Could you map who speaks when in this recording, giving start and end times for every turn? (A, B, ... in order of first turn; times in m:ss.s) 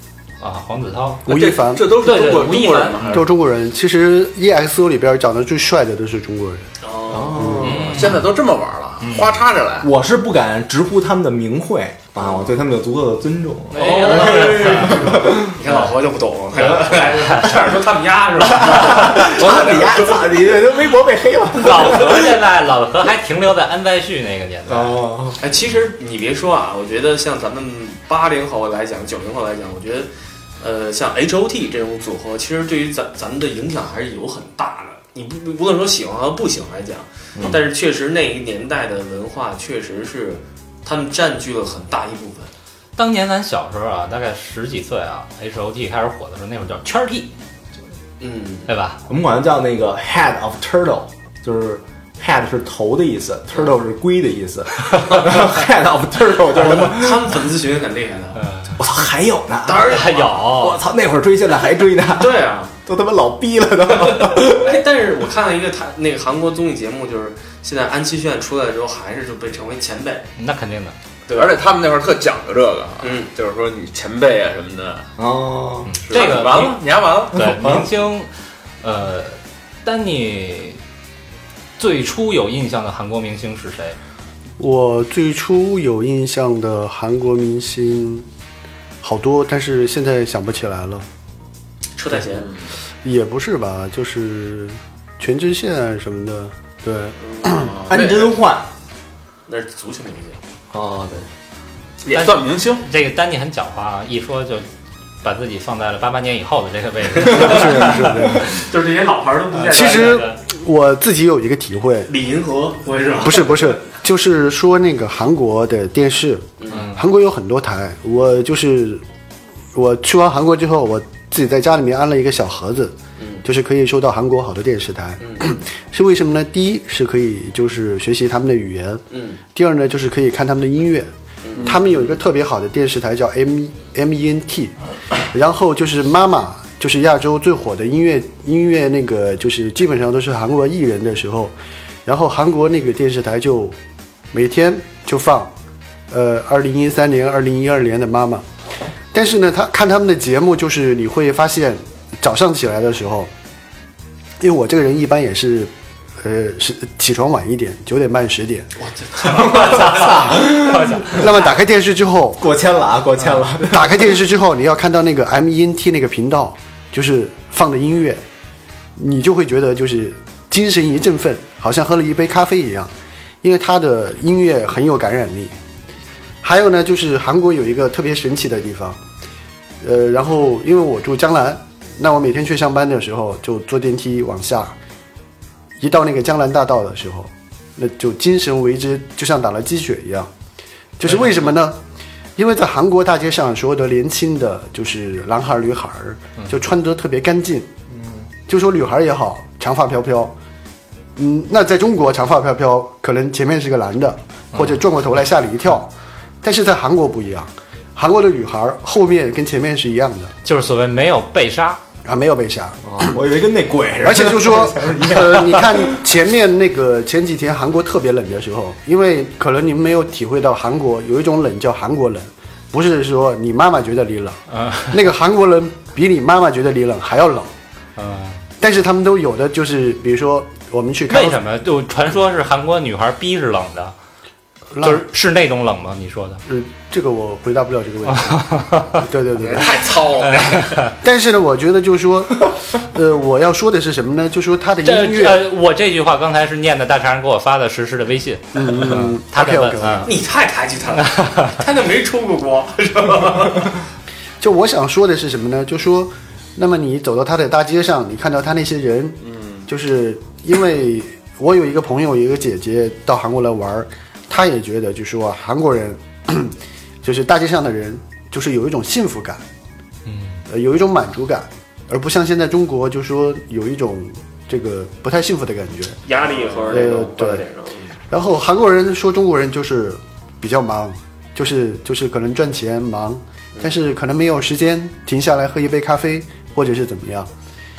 0:00.4-0:01.2 A
0:01.2-0:03.3 B
0:01.3-0:02.0 C
0:01.9-0:03.3 A
0:03.1-0:06.7 C
0:06.8-0:07.8 D
0:07.1-0:08.2 E
0:07.4-0:07.8 C
0:07.6-0:08.3 A
0:07.9-0:09.9 B
0:09.0-0:09.4 A
0:09.8-0:15.6 E
0:12.2-0:12.6 D
0:13.7-0:15.9 A
0:13.8-0:20.4 D
0:16.6-0:17.6 A
0:18.4-0:22.4 E
0:21.6-0:25.0 A
0:24.7-0:25.4 E
0:25.4-0:30.1 D
0:30.6-0:42.5 D
0:37.4-0:37.6 E
0:43.0-0:47.3 A
0:48.2-0:48.7 D
0:48.7-0:49.0 A
0:49.1-0:57.4 E
0:56.5-0:58.4 D
0:58.4-0:58.8 A
0:58.8-1:04.8 E
0:59.6-1:00.5 D
0:59.8-1:00.8 A
1:02.2-1:02.7 D
1:03.9-1:10.3 D
1:10.4-1:11.0 A
1:11.3-1:11.6 D
1:11.3-1:15.1 B
1:13.0-1:13.3 D
1:15.2-1:16.0 E
1:15.9-1:18.3 A
1:16.0-1:17.6 B
1:17.5-1:17.9 E
1:18.8-1:20.8 A
1:21.8-1:24.0 A
1:24.6-1:28.3 C
1:29.0-1:31.1 C
1:32.0-1:32.5 D
1:32.4-1:32.7 B
1:33.0-1:37.8 C
1:37.2-1:37.7 D
1:37.7-1:38.4 B
1:37.9-1:38.7 E
1:39.5-1:40.4 D
1:40.7-1:41.3 E
1:42.0-1:42.9 B
1:42.1-1:44.6 A
1:45.2-1:48.4 A
1:47.2-1:48.6 E
1:47.3-1:47.6 D
1:47.8-1:48.4 C
1:48.5-1:50.3 D
1:49.6-1:50.4 A
1:49.7-1:52.1 C
1:52.1-1:53.8 D
1:53.2-1:59.0 C
1:56.6-1:56.9 D
1:56.7-1:57.0 A
1:59.7-2:11.1 C
2:03.2-2:03.5 D
2:05.2-2:05.6 D
2:09.1-2:09.4 D
2:11.4-2:12.2 D
2:11.6-2:14.8 C
2:15.3-2:21.5 C
2:22.0-2:23.8 C
2:24.3-2:25.5 C
2:26.1-2:28.5 C
2:29.1-2:33.3 C
2:34.4-2:38.7 C
2:38.8-2:41.3 D
2:39.2-2:41.1 E
2:39.5-2:41.2 A
2:41.1-2:42.4 C
2:42.4-2:44.1 E
2:43.6-2:48.2 C
2:49.0-2:55.5 C
2:56.4-2:59.0 C
2:59.8-3:04.8 C
3:05.8-3:10.3 C
3:11.0-3:11.8 C
3:11.1-3:11.4 A
3:12.4-3:17.7 C
3:17.9-3:18.3 E
3:18.5-3:20.3 C
3:21.2-3:25.9 C
3:24.5-3:24.8 A
3:26.4-3:30.3 C
3:30.4-3:31.8 A
3:32.0-3:33.2 C
3:32.8-3:36.0 E
3:34.0-3:47.5 C
3:44.5-3:45.0 A
3:48.0-3:48.4 A
3:48.6-3:51.4 C
3:51.1-3:54.0 A
3:54.7-3:55.1 C
3:54.8-3:56.4 A
3:56.5-4:00.0 C
3:58.1-3:59.0 A
3:59.4-4:00.8 B
4:00.2-4:00.9 A
4:01.0-4:05.4 C
4:04.8-4:10.1 A
4:08.5-4:10.1 C
4:10.1-4:13.8 D
4:11.0-4:11.6 A
4:14.4-4:29.4 C
4:19.2-4:19.6 B
4:30.1-4:30.4 A
4:30.5-4:36.0 C
4:36.1-4:38.0 D
4:36.7-4:37.5 C
4:38.1-4:47.3 C